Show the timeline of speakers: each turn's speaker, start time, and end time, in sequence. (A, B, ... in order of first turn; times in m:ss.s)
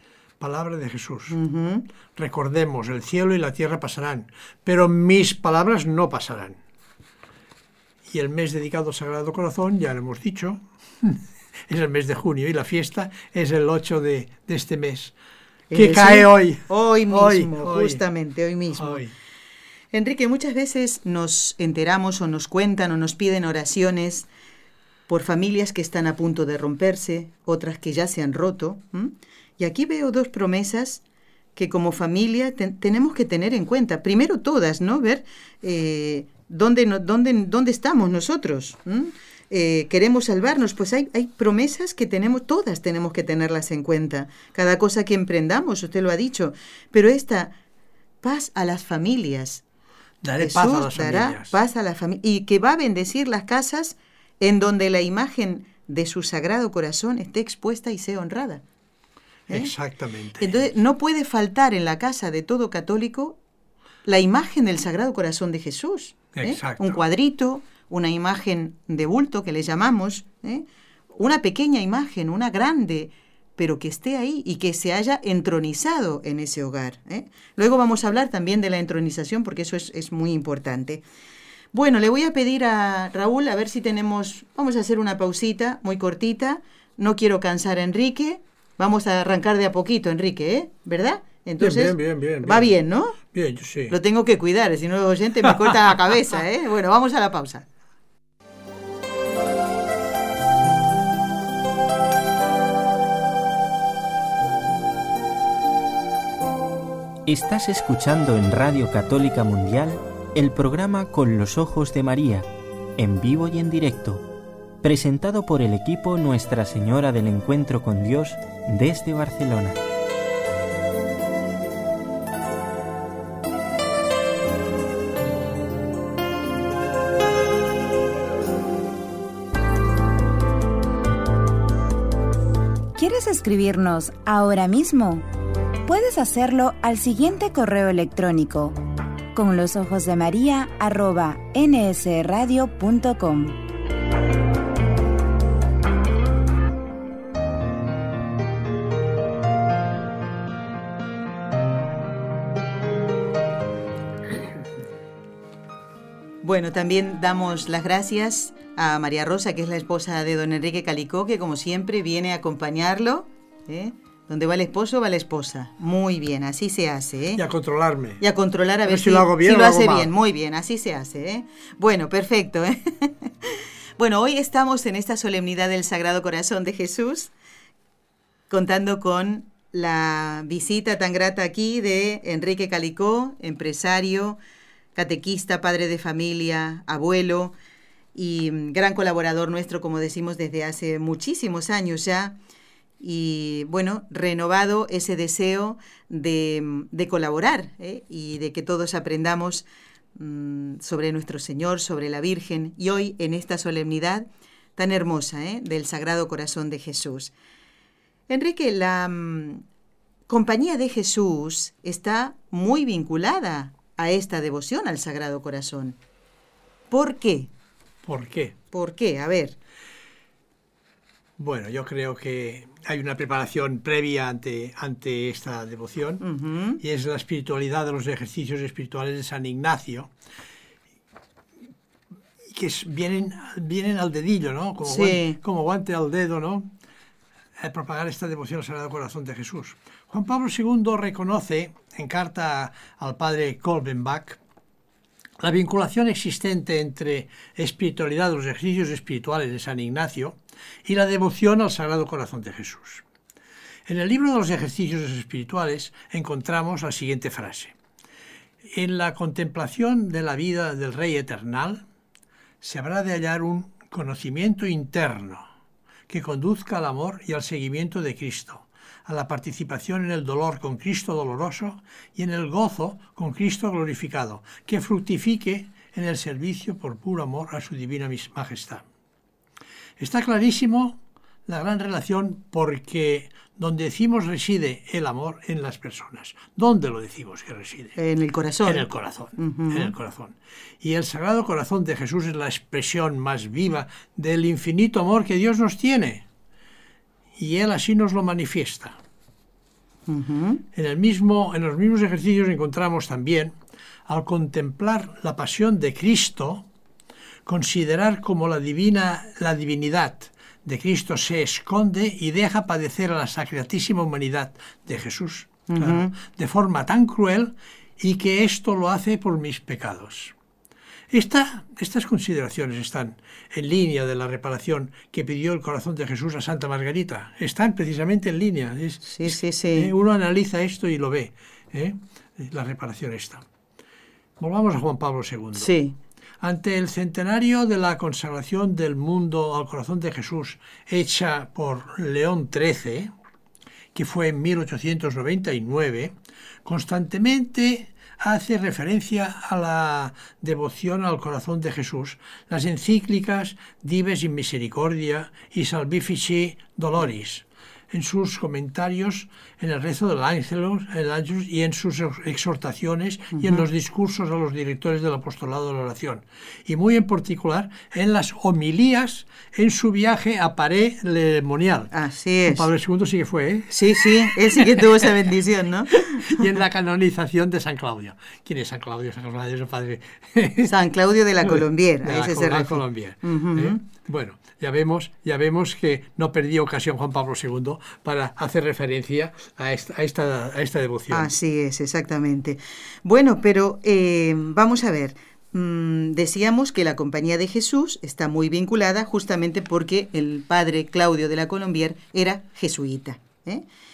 0:00.4-0:01.4 A
0:01.3-0:01.9 B
0:02.2-0:06.6 A
0:08.1-0:15.1 A
0:15.7-0:19.0 B
0:15.7-0:18.0 A
0:18.8-0:19.1 A
0:19.9-0:24.3 B
0:25.1-0:31.0 B
0:31.6-0:47.6 B
0:48.2-0:49.6 B
0:50.2-0:51.6 A
0:50.4-0:58.6 B
0:59.5-1:00.7 A
1:00.4-1:03.4 B
1:04.0-1:21.0 B
1:06.3-1:07.0 A
1:21.7-1:33.2 B
1:31.6-1:34.0 A
1:33.9-1:37.7 B
1:47.3-1:52.5 C
1:53.0-1:54.2 C
1:54.8-1:59.8 C
2:13.0-2:15.3 D
2:15.9-2:18.8 D
2:19.3-2:23.6 D
2:36.4-2:47.4 B
2:47.4-2:48.2 A
2:48.2-2:57.3 B
2:48.9-2:50.1 A
2:58.5-3:04.4 B
3:05.0-3:07.6 B
3:08.2-3:12.4 B
3:13.0-3:27.3 B
3:28.3-3:29.6 B
3:30.3-3:36.0 B
3:36.9-3:37.5 B
3:38.0-3:38.6 A
3:38.7-3:39.6 B
3:41.4-3:46.2 A
3:46.2-3:46.8 B
3:46.8-3:50.1 A
3:52.5-3:56.7 A
3:54.8-3:55.4 B
3:57.6-4:04.4 A
4:05.4-4:13.0 A
4:13.9-4:17.8 A
4:18.7-4:21.8 A
4:22.6-4:25.4 A
4:26.1-4:38.8 A
4:40.0-4:48.0 A
4:48.0-4:49.9 B
4:48.6-4:56.2 A
4:57.4-4:59.0 A
5:00.1-5:00.6 B
5:00.7-5:06.7 A
5:07.5-5:20.4 A
5:15.7-5:16.1 B
5:21.1-5:33.4 A
5:29.0-5:29.9 B
5:34.4-5:35.7 A
5:35.6-5:36.0 B
5:36.4-5:43.1 A
5:43.9-6:11.9 A
6:03.3-6:03.6 B
6:11.9-6:12.7 B
6:12.4-6:15.1 A
6:13.7-6:16.6 B
6:15.9-6:20.7 A
6:20.6-6:23.8 B
6:21.5-6:31.3 A
6:31.1-6:43.6 B